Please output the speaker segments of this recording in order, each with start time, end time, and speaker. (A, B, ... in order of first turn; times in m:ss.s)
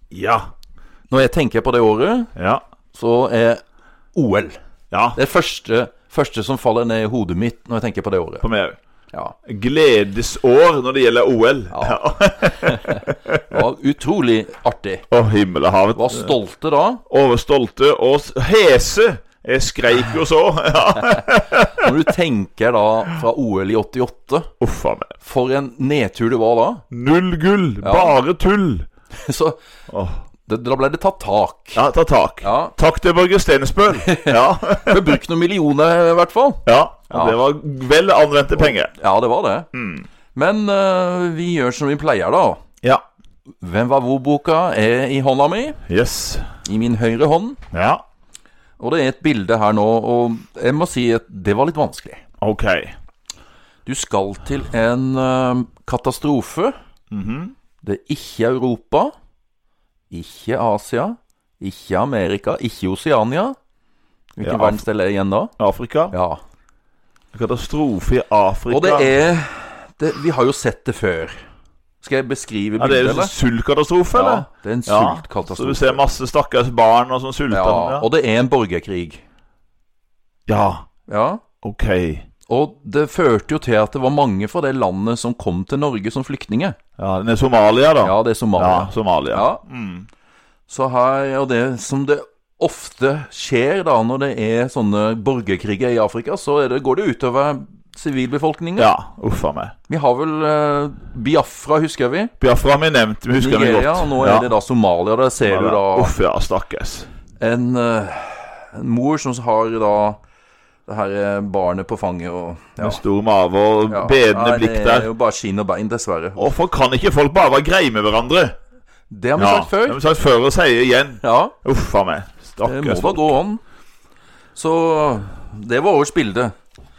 0:00.1-0:00.5 A
0:01.1-0:02.3 B
0:02.4-0:02.6 A
0:02.9-0:03.6 B
0:04.1-0:04.6 B
0:04.9-0:05.2 A
0:05.1-0:08.5 B
0:08.4-0:08.8 A
0:09.4-0:13.6 A
0:11.7-0:15.0 B
0:15.1-0:16.3 A
0:16.0-0:17.0 B
0:17.1-0:21.9 A
0:21.7-0:24.5 B
0:24.6-0:25.1 A
0:25.2-0:26.8 B
0:26.9-0:28.9 A
0:27.8-0:28.2 B
0:29.1-0:29.6 B
0:29.9-0:30.2 A
0:30.5-0:31.8 B
0:31.7-0:35.2 A
0:32.4-0:32.7 B
0:33.9-0:37.4 B
0:36.7-0:38.9 A
0:38.6-0:39.7 B
0:39.7-0:40.0 A
0:40.3-0:42.6 B
0:43.6-0:45.8 B
0:45.9-0:46.5 A
0:46.6-0:47.6 B
0:47.7-0:48.0 A
0:48.8-0:52.2 B
0:52.4-0:52.9 A
0:53.8-0:56.7 B
0:57.1-0:57.5 A
0:57.8-0:59.1 B
1:00.1-1:03.6 B
1:04.4-1:05.5 B
1:04.4-1:04.8 A
1:05.6-1:06.1 A
1:06.1-1:06.4 B
1:07.3-1:09.1 A
1:08.7-1:11.4 B
1:12.0-1:13.3 B
1:12.8-1:18.1 A
1:14.1-1:16.0 B
1:17.5-1:19.2 B
1:20.5-1:20.9 A
1:21.1-1:21.4 B
1:21.6-1:22.3 A
1:22.5-1:26.8 B
1:27.0-1:30.1 A
1:28.0-1:29.6 B
1:30.7-1:38.9 B
1:38.8-1:39.7 A
1:39.9-1:42.3 B
1:42.4-1:44.5 A
1:43.4-1:46.1 B
1:45.4-1:47.1 A
1:47.4-1:50.2 B
1:50.9-1:53.0 B
1:52.8-1:55.1 A
1:53.9-1:56.5 B
1:56.4-1:58.6 A
1:59.1-2:00.0 B
1:59.4-2:03.3 A
2:01.2-2:01.6 B
2:02.6-2:03.6 B
2:04.6-2:06.6 B